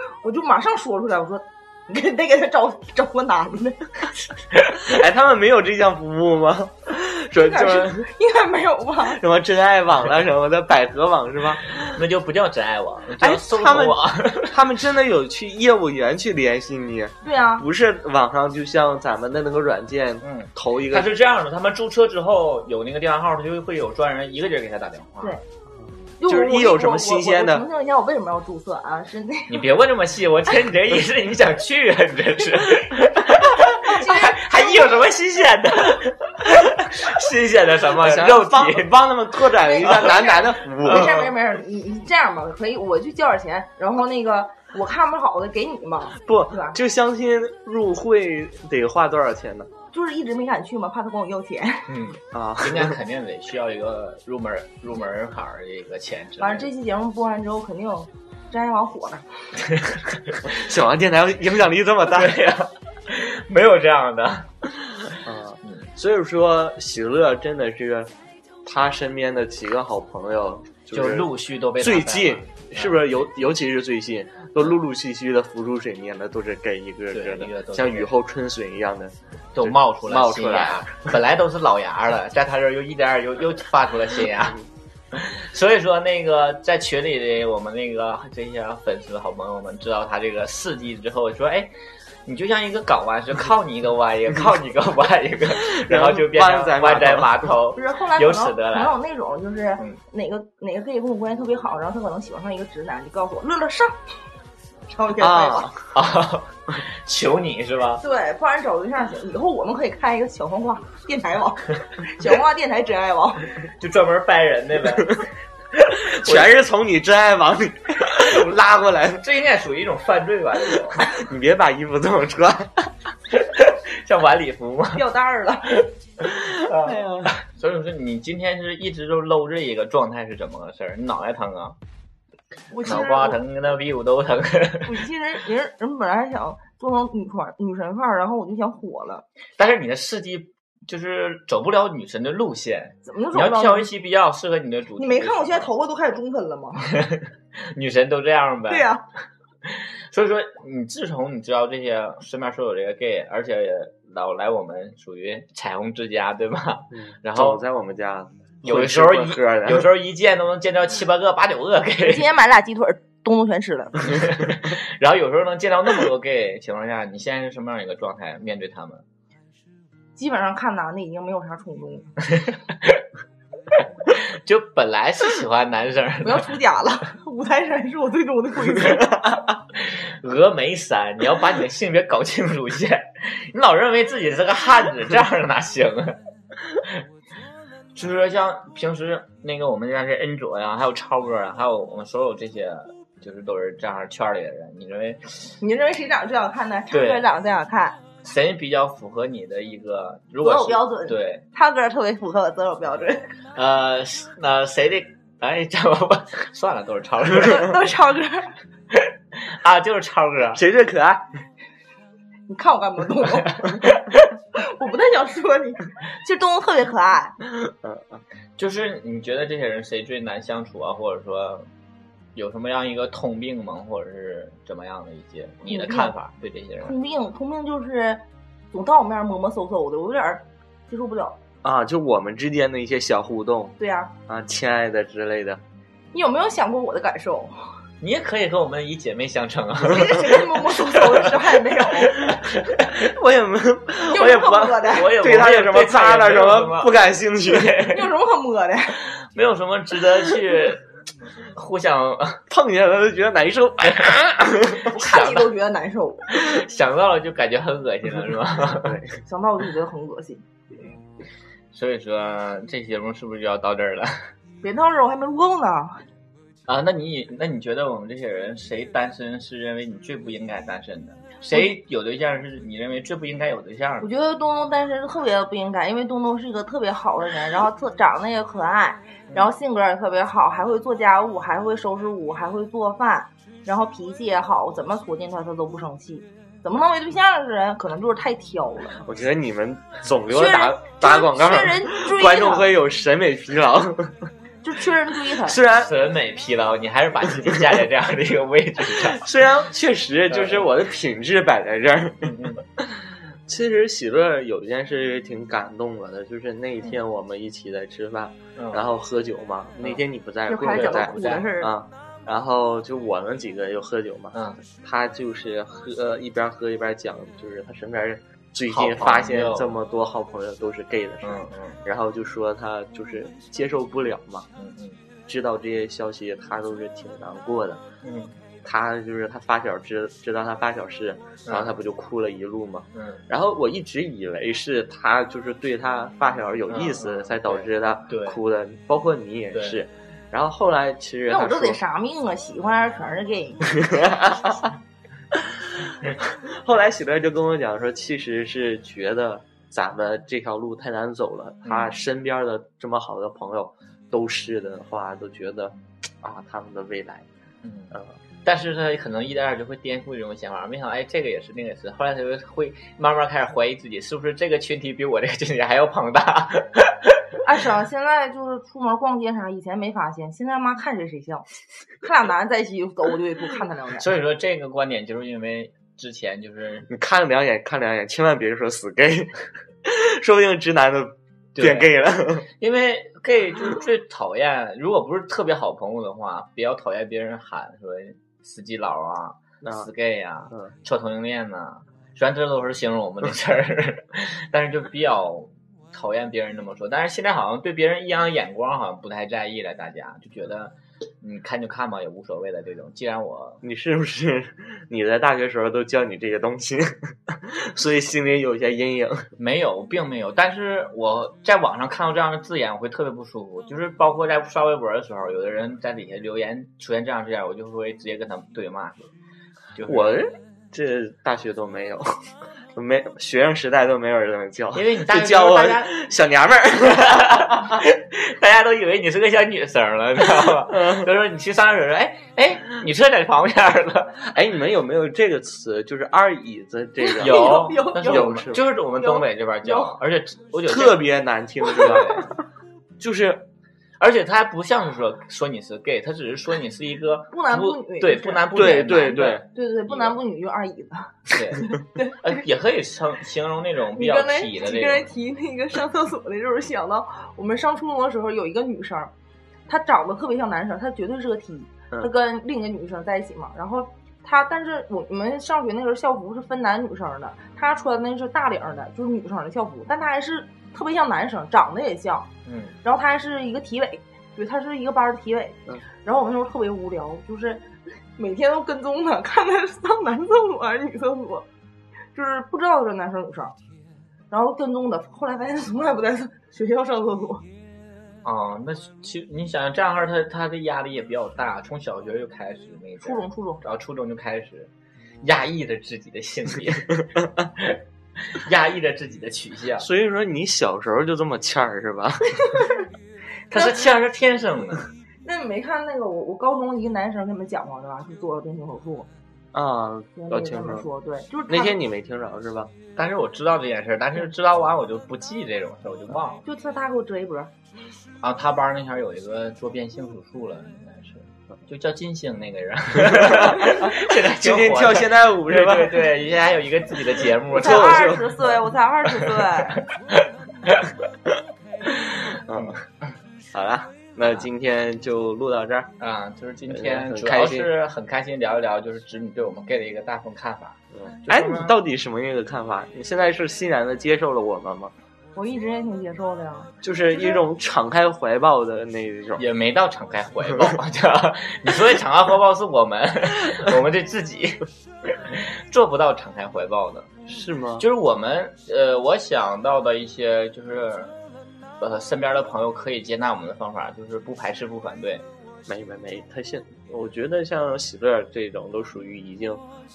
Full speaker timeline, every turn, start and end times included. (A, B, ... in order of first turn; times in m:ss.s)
0:00.2-0:03.9 A
0:04.9-0:08.0 B
0:07.4-0:09.2 A
0:09.2-0:11.7 B
0:11.8-0:14.6 C
0:13.2-0:21.1 B
0:17.2-0:17.7 A
0:20.2-0:25.4 C
0:26.2-0:29.7 A
0:26.3-0:27.7 B
0:29.5-0:39.0 C
0:33.8-0:35.0 A
0:37.9-0:41.3 B
0:39.6-0:46.8 A
0:40.9-0:41.3 C
0:46.2-0:49.7 B
0:49.9-0:51.9 A
0:51.9-0:56.7 C
0:52.3-0:53.0 B
0:56.4-0:59.3 A
0:59.7-1:00.4 C
1:00.5-1:02.4 B
1:02.1-1:05.9 C
1:05.2-1:08.1 B
1:08.6-1:21.2 B
1:10.9-1:13.1 C
1:17.1-1:18.1 C
1:19.5-1:24.6 C
1:25.1-1:31.7 C
1:32.3-1:39.0 C
1:35.7-1:37.5 B
1:37.8-1:44.0 A
1:44.9-1:45.7 A
1:45.2-1:45.9 B
1:45.9-1:48.0 C
1:48.0-1:53.5 A
1:53.8-1:56.6 C
1:56.2-1:59.2 B
1:58.1-1:58.6 C
1:59.2-2:01.2 C
2:01.1-2:02.9 B
2:03.3-2:05.0 C
2:05.0-2:05.8 A
2:06.6-2:11.8 C
2:06.8-2:07.4 B
2:12.7-2:13.4 A
2:12.8-2:14.9 C
2:14.8-2:19.3 A
2:19.6-2:25.7 C
2:23.1-2:23.9 A
2:25.0-2:27.0 A
2:26.9-2:28.9 C
2:28.7-2:29.0 A
2:29.7-2:37.6 C
2:36.9-2:39.9 B
2:38.6-2:42.3 C
2:42.0-2:44.2 A
2:44.0-2:49.0 C
2:50.2-2:52.1 A
2:52.4-2:53.0 C
2:53.7-2:56.5 C
2:56.2-2:59.2 A
2:59.8-3:06.2 C
3:06.7-3:07.0 C
3:08.0-3:15.5 C
3:15.6-3:18.0 A
3:16.9-3:17.2 C
3:18.2-3:21.4 C
3:20.4-3:23.3 A
3:23.6-3:27.9 C
3:27.3-3:28.6 A
3:28.9-3:30.6 C
3:30.6-3:31.3 B
3:32.5-3:33.8 A
3:33.6-3:34.2 C
3:34.6-3:37.4 A
3:37.4-3:38.2 B
3:38.6-3:41.7 C
3:42.4-3:47.0 C
3:45.7-3:46.1 A
3:46.8-3:51.4 A
3:51.6-3:53.8 B
3:53.8-3:54.1 A
3:54.3-3:55.6 B
3:56.1-3:57.6 A
3:58.0-4:03.0 C
3:59.9-4:02.2 A
4:02.9-4:07.9 B
4:04.1-4:05.2 A
4:04.2-4:08.0 C
4:07.9-4:09.0 A
4:09.1-4:10.9 C
4:11.5-4:12.4 C
4:12.5-4:14.9 B
4:13.9-4:14.2 C
4:14.9-4:16.4 A
4:14.9-4:15.5 C
4:16.3-4:19.0 C
4:18.8-4:19.2 B
4:19.2-4:20.4 A
4:21.7-4:24.3 C
4:24.6-4:26.0 A
4:26.7-4:34.1 C
4:34.0-4:49.0 A
4:49.0-4:54.3 B
4:50.3-4:52.7 A
4:54.6-4:55.6 A
4:55.4-4:55.9 B
4:55.6-4:59.3 C
4:59.0-5:24.5 B
5:00.3-5:00.7 C
5:02.2-5:02.6 C
5:08.6-5:08.9 C
5:10.5-5:11.7 A
5:14.3-5:14.6 C
5:18.7-5:19.8 C
5:21.2-5:21.8 C
5:24.6-5:25.0 C
5:25.3-5:27.8 B
5:28.0-5:28.4 C
5:28.6-5:41.8 B
5:31.5-5:31.8 C
5:33.0-5:33.2 C
5:36.7-5:38.4 C
5:39.5-5:39.8 C
5:41.3-5:44.1 A
5:43.7-5:44.7 B
5:45.3-5:57.3 B
5:51.6-5:52.0 C
5:57.6-5:57.9 C
5:58.4-6:07.2 C
6:07.4-6:11.5 A
6:12.0-6:14.1 A
6:14.0-6:16.9 C
6:16.9-6:22.5 B
6:21.6-6:21.9 C
6:22.6-6:43.6 C
6:29.6-6:29.9 B
6:43.6-6:49.3 B
6:49.4-6:59.1 C
6:59.8-7:00.2 C
6:59.9-7:02.1 B
7:02.8-7:07.8 B
7:04.7-7:06.0 C
7:06.8-7:14.3 C
7:10.5-7:11.1 B
7:14.2-7:18.7 B
7:17.0-7:18.4 A
7:17.2-7:21.2 C
7:19.0-7:20.0 A
7:20.7-7:22.3 B
7:21.7-7:22.3 C
7:23.0-7:23.5 B
7:24.0-7:30.2 C
7:27.3-7:28.7 A
7:28.5-7:29.4 B
7:29.5-7:32.4 A
7:31.3-7:35.1 C
7:34.0-7:39.1 A
7:39.7-7:52.3 A
7:52.5-7:52.8 C
7:52.8-8:01.5 A
8:02.1-8:03.6 A
8:04.3-8:07.4 A
8:08.2-8:14.7 C
8:13.0-8:13.6 A
8:15.2-8:17.8 C
8:18.3-8:19.9 C
8:19.8-8:22.6 B
8:23.5-8:24.9 C
8:25.2-8:29.1 A
8:29.5-8:30.9 B
8:30.2-8:31.8 A
8:31.5-8:32.7 B
8:33.0-8:36.4 C
8:36.4-8:37.5 A
8:38.2-8:48.1 C
8:43.1-8:46.0 B
8:47.5-8:48.5 B
8:47.5-8:49.8 A
8:50.2-8:50.9 C
8:52.5-8:52.8 B
8:53.5-8:55.9 B
8:56.0-9:01.8 C
8:56.7-8:57.7 B
9:01.0-9:04.9 B
9:05.4-9:06.7 A
9:06.8-9:09.4 B
9:09.4-9:17.1 C
9:17.3-9:17.9 B
9:17.8-9:21.1 C
9:21.8-9:25.2 C
9:25.7-9:29.6 B